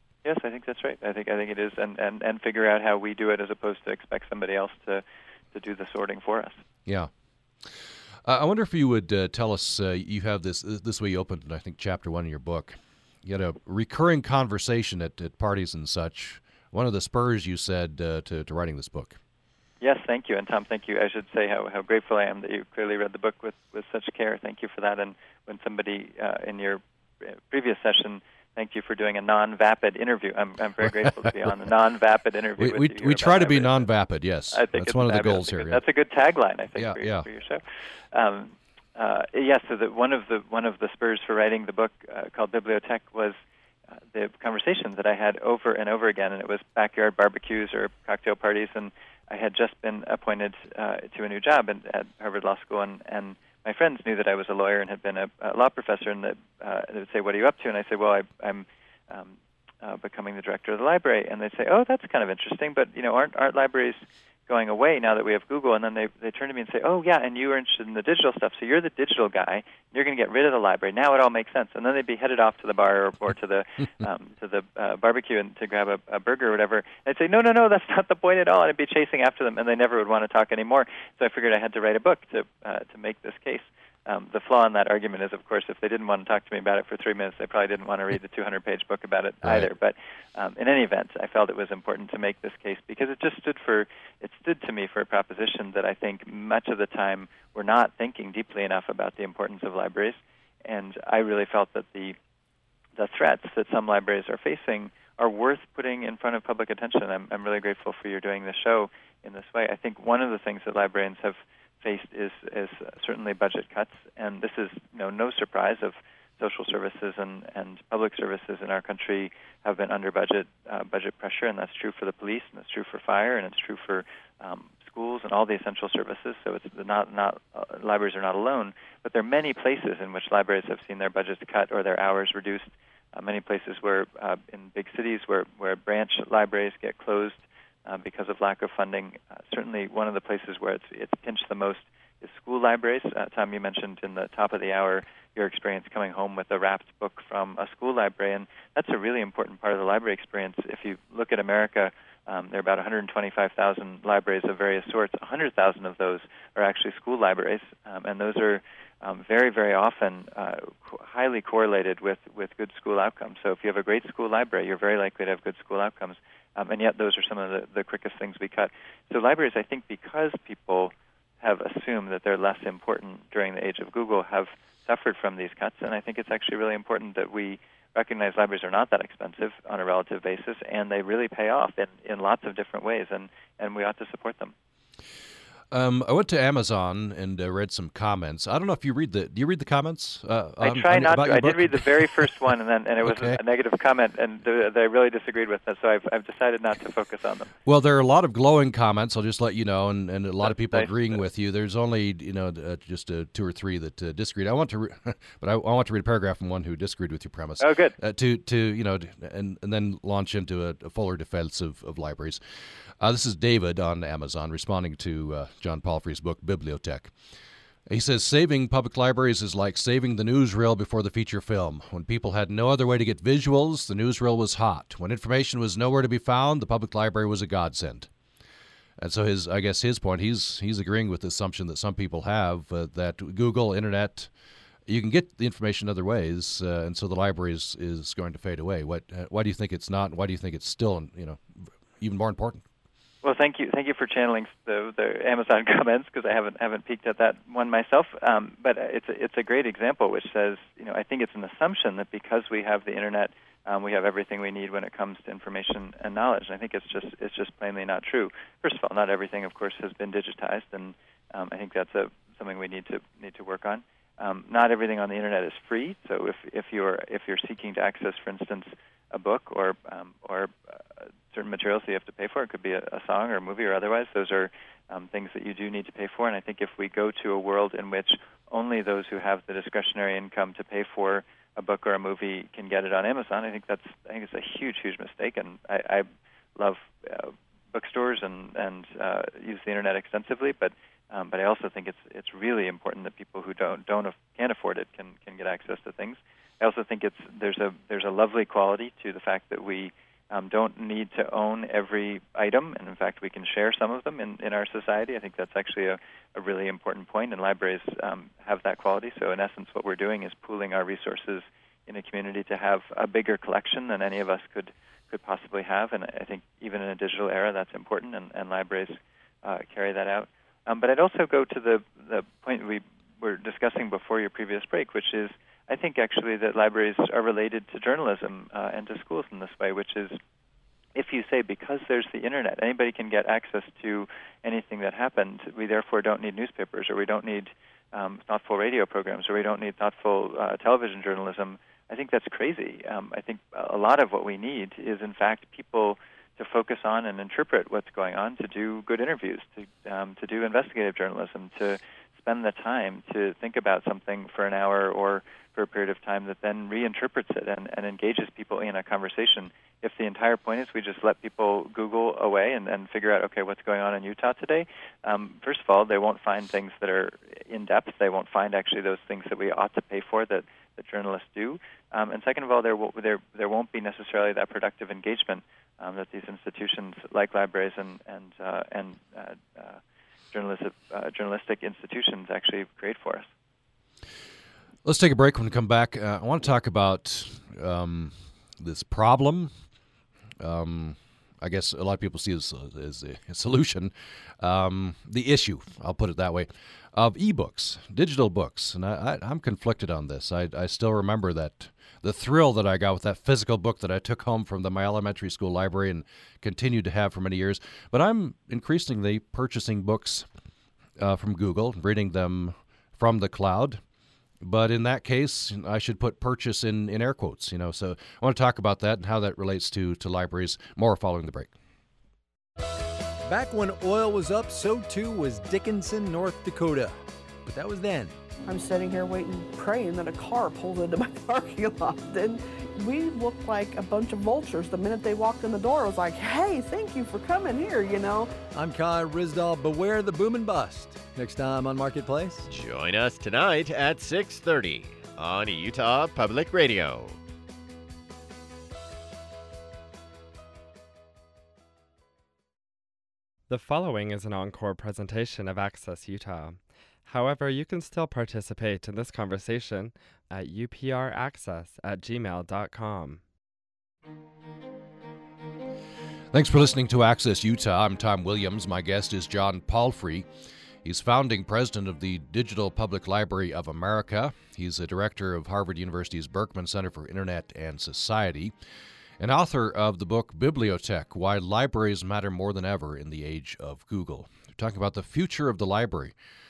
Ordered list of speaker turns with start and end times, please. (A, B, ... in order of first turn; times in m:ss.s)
0:00.2-0:06.6 A
0:08.2-0:19.2 B
0:19.8-0:33.8 A
0:32.6-0:35.8 B
0:34.5-0:43.3 A
0:36.8-0:37.3 B
0:43.9-1:42.2 A
1:29.4-1:29.7 B
1:43.0-3:04.5 A
3:05.7-3:13.4 B
3:10.6-3:17.5 A
3:17.6-3:32.4 B
3:20.4-3:20.9 A
3:27.6-3:27.9 A
3:33.0-3:37.1 B
3:37.9-3:48.1 B
3:49.0-3:54.3 B
3:54.9-4:02.6 B
4:03.2-4:30.8 A
4:31.3-5:30.2 A
5:30.9-6:19.8 A
6:20.3-6:23.3 A
6:24.8-6:29.5 B
6:30.4-6:50.3 B
6:51.0-6:53.8 B
6:54.4-7:01.5 B
7:03.2-7:08.1 C
7:08.5-7:18.3 D
7:18.5-7:22.5 C
7:22.5-7:27.2 E
7:33.5-7:43.2 F
7:46.3-7:50.2 B
7:50.8-7:58.5 B
7:59.2-8:06.1 B